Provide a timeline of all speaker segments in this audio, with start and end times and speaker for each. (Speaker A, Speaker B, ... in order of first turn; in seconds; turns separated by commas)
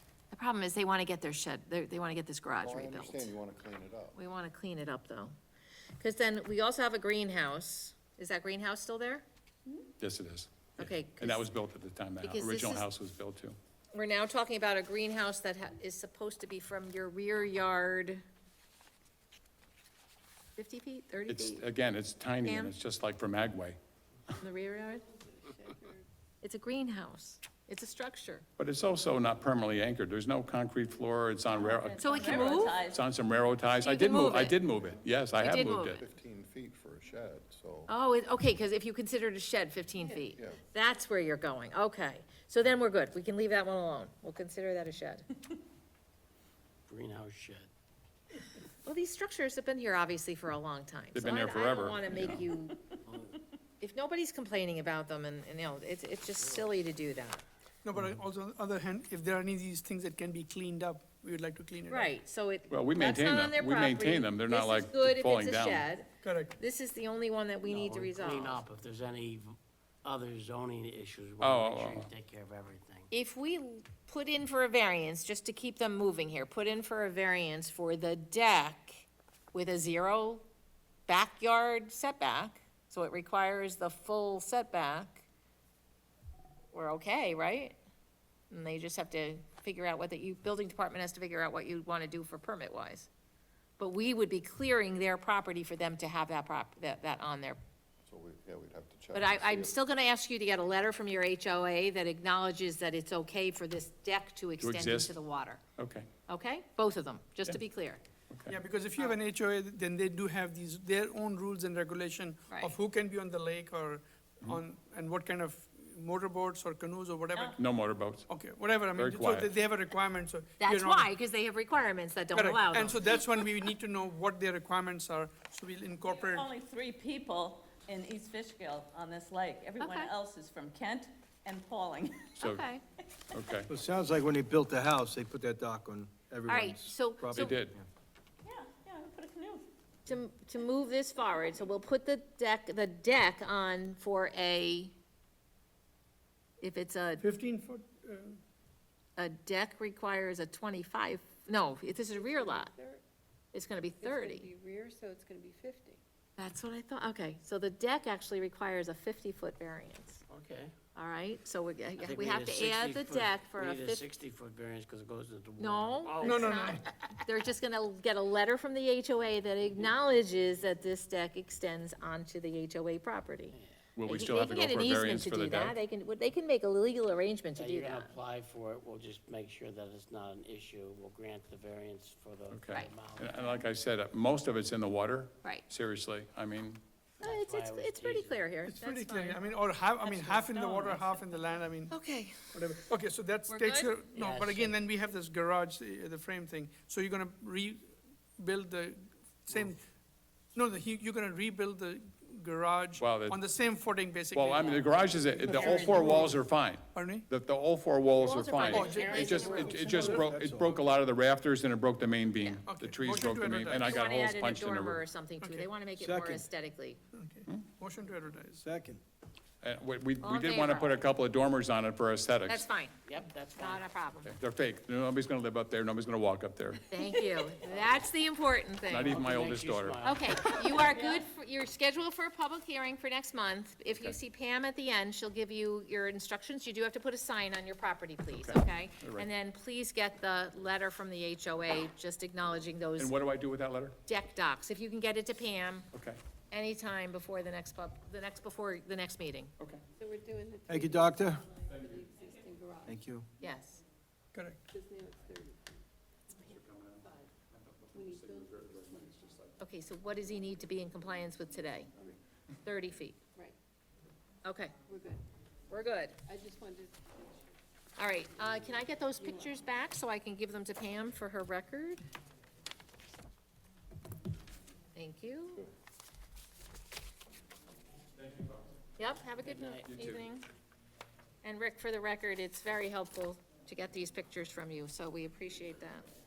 Speaker A: 0.3-3.3, Speaker B: 2.6-4.2, Speaker A: 4.2-5.3, Speaker A: 6.0-9.2, Speaker C: 10.0-13.6, Speaker A: 10.8-11.5, Speaker A: 12.2-12.9, Speaker A: 13.9-18.2, Speaker A: 20.6-21.6, Speaker C: 21.3-23.8, Speaker A: 22.4-22.8, Speaker A: 24.4-25.0, Speaker D: 25.2-26.1, Speaker A: 26.4-28.5, Speaker C: 28.6-36.0, Speaker E: 31.6-32.6, Speaker F: 31.8-33.0, Speaker A: 31.9-32.9, Speaker A: 33.8-34.6, Speaker B: 34.6-37.9, Speaker A: 35.4-36.0, Speaker A: 37.9-45.3, Speaker B: 40.3-40.6, Speaker E: 46.9-47.7, Speaker A: 48.8-53.0, Speaker C: 51.1-52.5, Speaker A: 53.8-57.4, Speaker G: 57.8-62.1, Speaker A: 61.9-68.6, Speaker C: 62.7-65.9, Speaker G: 66.2-66.5, Speaker E: 67.7-73.1, Speaker C: 71.4-72.1, Speaker A: 73.1-80.5, Speaker A: 81.1-85.3, Speaker A: 86.7-87.8, Speaker A: 88.5-93.1, Speaker A: 93.8-97.6, Speaker B: 98.1-99.8, Speaker A: 99.1-105.7, Speaker C: 104.6-105.2, Speaker C: 105.8-106.1, Speaker A: 106.3-108.0, Speaker C: 108.3-108.6, Speaker G: 108.5-117.6, Speaker C: 117.6-118.3, Speaker G: 118.3-121.1, Speaker C: 119.0-119.5, Speaker A: 120.6-123.2, Speaker G: 122.3-126.5, Speaker F: 126.3-132.2, Speaker A: 129.8-130.1, Speaker A: 132.4-132.8, Speaker C: 133.3-133.7, Speaker H: 133.7-137.8, Speaker A: 136.5-137.6, Speaker C: 137.3-137.8, Speaker F: 138.4-139.7, Speaker A: 140.1-144.9, Speaker A: 146.6-147.3, Speaker G: 147.2-148.4, Speaker A: 149.2-152.7, Speaker D: 152.1-153.0, Speaker A: 153.5-154.5, Speaker D: 154.0-156.0, Speaker A: 156.4-160.2, Speaker E: 160.3-160.7, Speaker A: 160.9-164.0, Speaker E: 162.0-166.6, Speaker A: 165.6-178.2, Speaker G: 166.2-166.8, Speaker C: 174.0-175.8, Speaker E: 177.6-183.4, Speaker C: 182.5-186.8, Speaker A: 182.7-183.7, Speaker E: 187.2-188.5, Speaker A: 187.2-189.4, Speaker G: 188.7-191.9, Speaker F: 190.5-190.8, Speaker E: 190.9-191.2, Speaker A: 191.9-192.7, Speaker G: 192.5-199.8, Speaker A: 193.5-194.0, Speaker E: 194.2-194.8, Speaker G: 200.6-206.4, Speaker C: 203.0-203.4, Speaker C: 204.3-215.1, Speaker E: 204.6-204.8, Speaker E: 205.6-205.9, Speaker H: 206.0-206.2, Speaker G: 206.9-207.3, Speaker A: 208.2-210.1, Speaker G: 208.7-210.3, Speaker H: 209.5-210.8, Speaker G: 212.7-214.0, Speaker A: 213.8-217.0, Speaker G: 215.4-215.7, Speaker H: 216.0-216.4, Speaker G: 217.1-218.6, Speaker H: 218.6-219.0, Speaker C: 219.6-222.7, Speaker A: 220.2-221.0, Speaker A: 222.5-223.0, Speaker E: 223.1-223.8, Speaker A: 223.6-224.3, Speaker C: 224.2-226.8, Speaker A: 226.9-229.2, Speaker C: 228.9-230.1, Speaker E: 229.0-231.1, Speaker A: 230.0-243.2, Speaker C: 233.9-234.2, Speaker C: 238.3-239.3, Speaker C: 243.0-244.0, Speaker A: 244.1-245.9, Speaker C: 245.9-246.2, Speaker A: 246.5-249.6, Speaker D: 250.0-253.1, Speaker H: 252.9-253.3, Speaker A: 253.4-253.8, Speaker G: 254.3-254.6, Speaker D: 254.7-255.8, Speaker C: 256.4-259.5, Speaker D: 257.0-257.3, Speaker D: 257.9-259.5, Speaker A: 259.6-261.9, Speaker A: 262.6-263.2, Speaker A: 264.4-264.8, Speaker D: 264.9-265.2, Speaker A: 265.7-266.2, Speaker D: 266.2-267.6, Speaker A: 268.0-272.0, Speaker D: 269.2-269.6, Speaker A: 275.0-275.7, Speaker C: 278.2-278.6, Speaker A: 279.0-280.5, Speaker E: 279.4-279.9, Speaker C: 279.9-280.2, Speaker A: 281.4-286.1